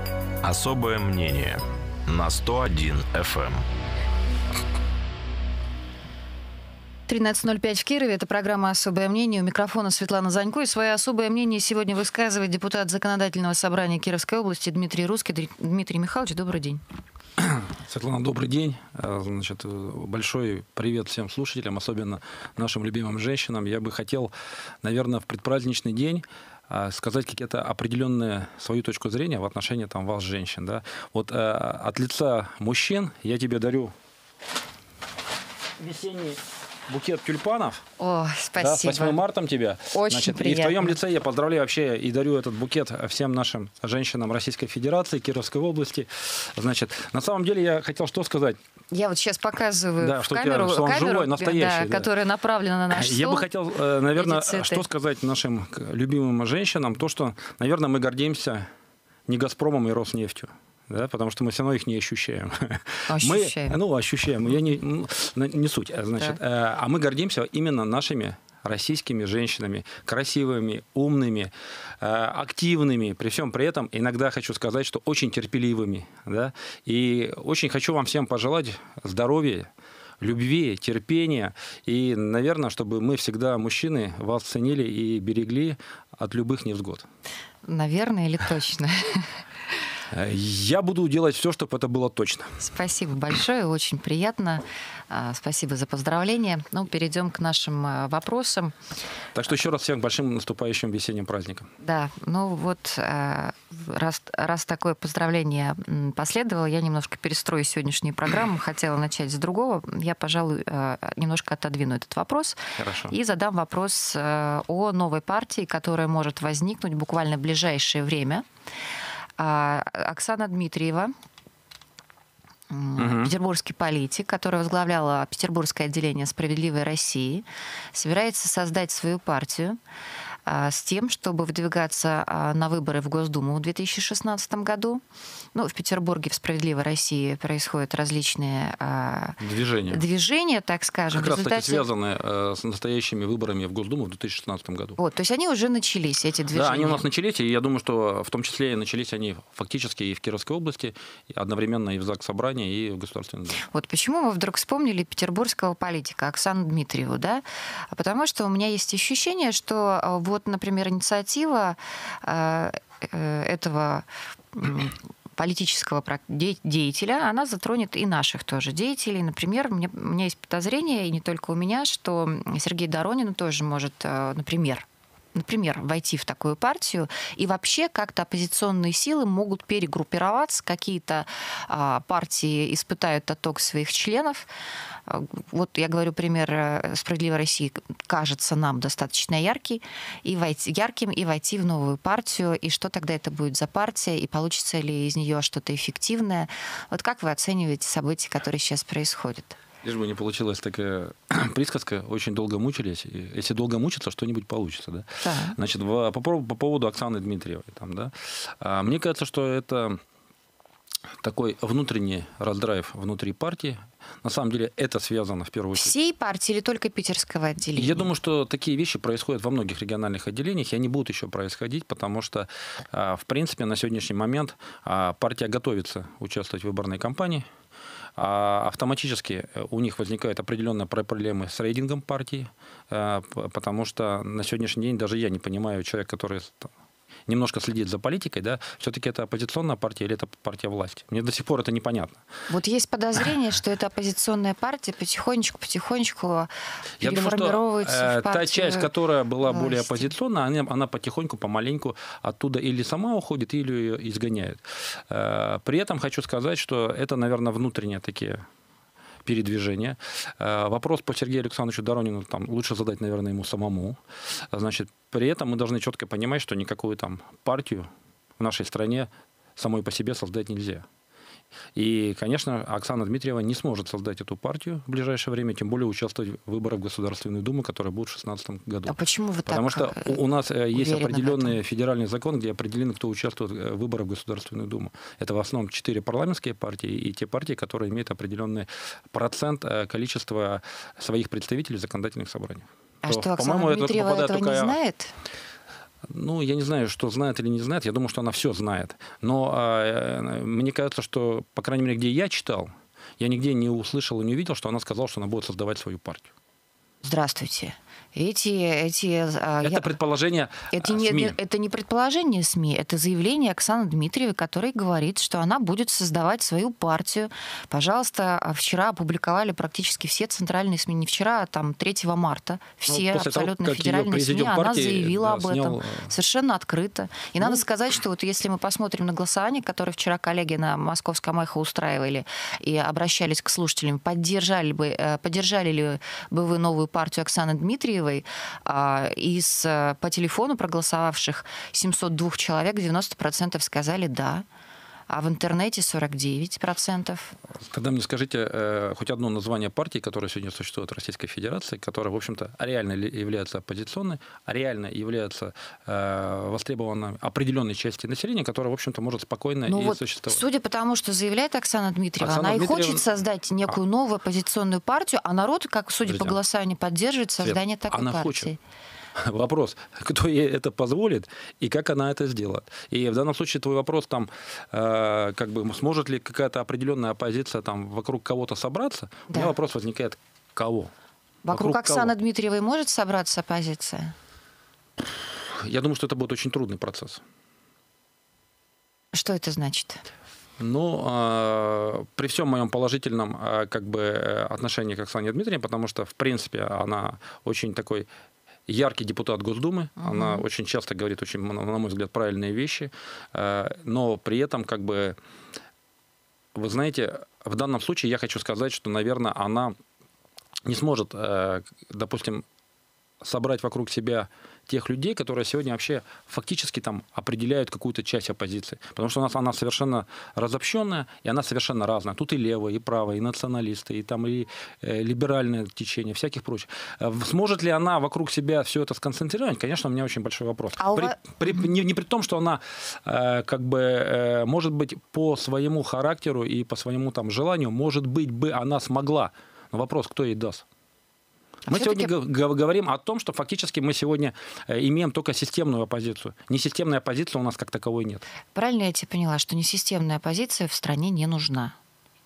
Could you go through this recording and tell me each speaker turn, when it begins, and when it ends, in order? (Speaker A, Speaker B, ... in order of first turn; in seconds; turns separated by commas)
Speaker A: 0.4-3.6, Speaker B: 7.1-16.8, Speaker C: 17.4-24.3, Speaker C: 24.8-33.9, Speaker C: 35.8-37.8, Speaker B: 38.0-39.2, Speaker C: 38.6-48.6, Speaker B: 39.9-41.0, Speaker B: 48.9-53.5, Speaker C: 50.0-52.1, Speaker C: 52.9-58.7, Speaker B: 54.2-54.8, Speaker C: 59.3-79.7, Speaker B: 63.1-63.8, Speaker C: 80.2-87.1, Speaker B: 87.7-89.4, Speaker C: 90.1-92.6, Speaker B: 92.6-98.8, Speaker C: 99.3-101.7, Speaker B: 101.8-118.5, Speaker C: 112.8-113.1, Speaker B: 119.4-121.1, Speaker B: 122.7-129.8, Speaker C: 123.0-123.3, Speaker B: 130.5-135.0, Speaker B: 135.5-141.9, Speaker C: 139.4-140.0, Speaker C: 141.1-145.0, Speaker B: 145.0-147.1, Speaker C: 146.5-153.6, Speaker B: 153.6-184.5, Speaker B: 185.1-199.6, Speaker C: 199.8-210.0, Speaker B: 205.2-205.6, Speaker C: 211.2-215.9, Speaker B: 215.8-218.1, Speaker C: 217.8-227.5, Speaker C: 228.2-236.7, Speaker C: 237.3-242.2, Speaker B: 242.5-250.1, Speaker C: 247.0-258.4, Speaker C: 259.2-264.0, Speaker C: 264.5-270.9, Speaker C: 271.8-279.0, Speaker B: 278.9-280.2, Speaker C: 279.5-294.8, Speaker B: 280.7-281.6, Speaker B: 293.0-295.1, Speaker C: 296.1-306.3, Speaker B: 307.0-309.9, Speaker C: 309.6-311.4, Speaker B: 310.7-344.4, Speaker C: 322.9-326.1, Speaker B: 345.1-347.4, Speaker C: 347.6-360.4, Speaker B: 359.7-368.6, Speaker C: 362.2-363.0, Speaker C: 366.1-366.4, Speaker C: 367.4-368.5, Speaker C: 369.2-380.9, Speaker B: 381.4-384.1, Speaker C: 381.5-382.1, Speaker C: 385.0-387.2, Speaker B: 389.1-390.1, Speaker C: 390.6-398.1, Speaker C: 398.7-405.2, Speaker B: 400.0-400.4, Speaker C: 406.6-409.8, Speaker C: 410.7-412.4, Speaker C: 413.2-440.6, Speaker B: 430.8-431.7, Speaker C: 441.6-448.2, Speaker B: 441.7-442.1, Speaker B: 448.6-451.8